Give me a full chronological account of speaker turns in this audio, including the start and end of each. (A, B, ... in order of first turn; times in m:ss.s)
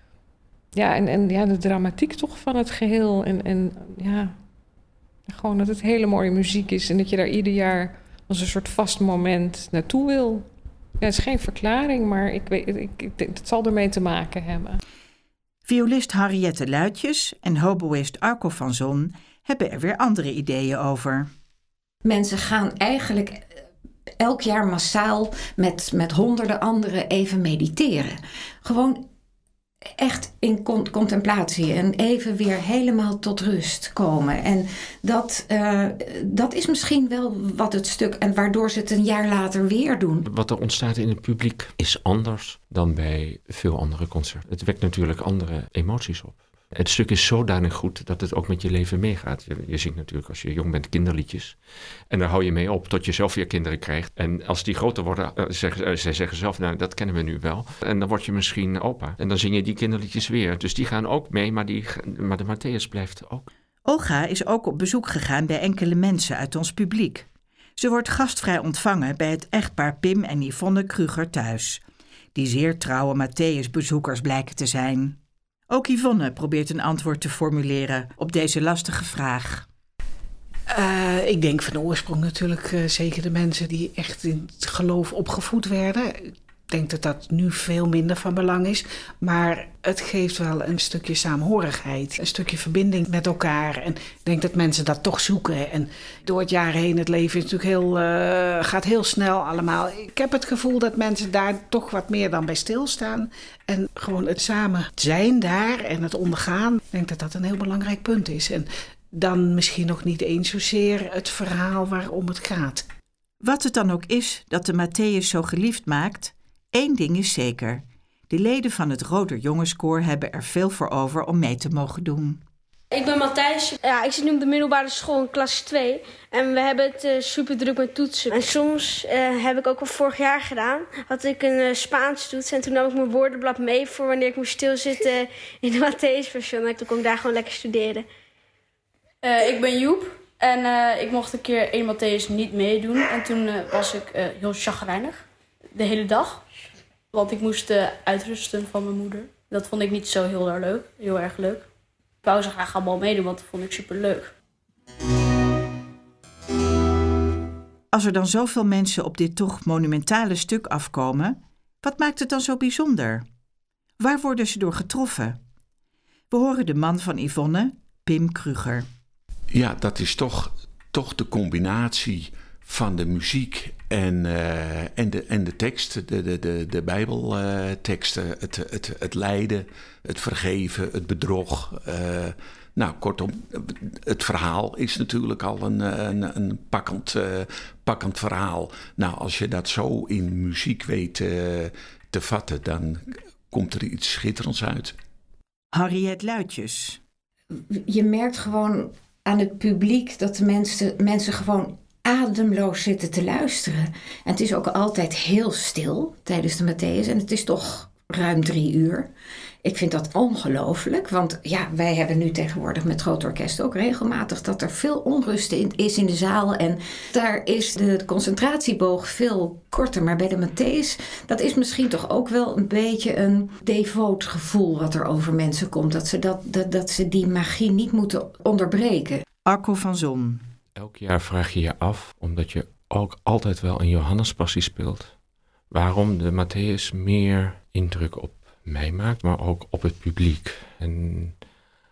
0:00.8-0:04.4 A
0:05.3-0:14.8 A
0:15.7-0:21.3 B
0:22.0-0:23.6 C
0:24.2-0:29.1 C
0:30.0-0:40.2 C
0:40.3-1:03.5 D
1:03.9-1:11.8 B
1:12.4-1:15.2 B
1:15.7-1:19.7 B
1:20.7-1:52.9 E
1:53.4-2:02.4 B
2:02.9-2:18.1 F
2:19.2-2:26.4 G
2:27.1-2:31.7 G
2:32.2-2:34.3 G
2:37.9-2:43.2 B
2:44.0-2:45.4 B
2:46.3-2:48.9 B
2:49.5-3:15.0 H
3:15.7-3:17.0 B
3:17.5-3:29.1 C
3:29.6-3:49.2 C
3:49.5-3:50.5 B
3:50.8-3:55.2 D
3:55.7-4:01.4 D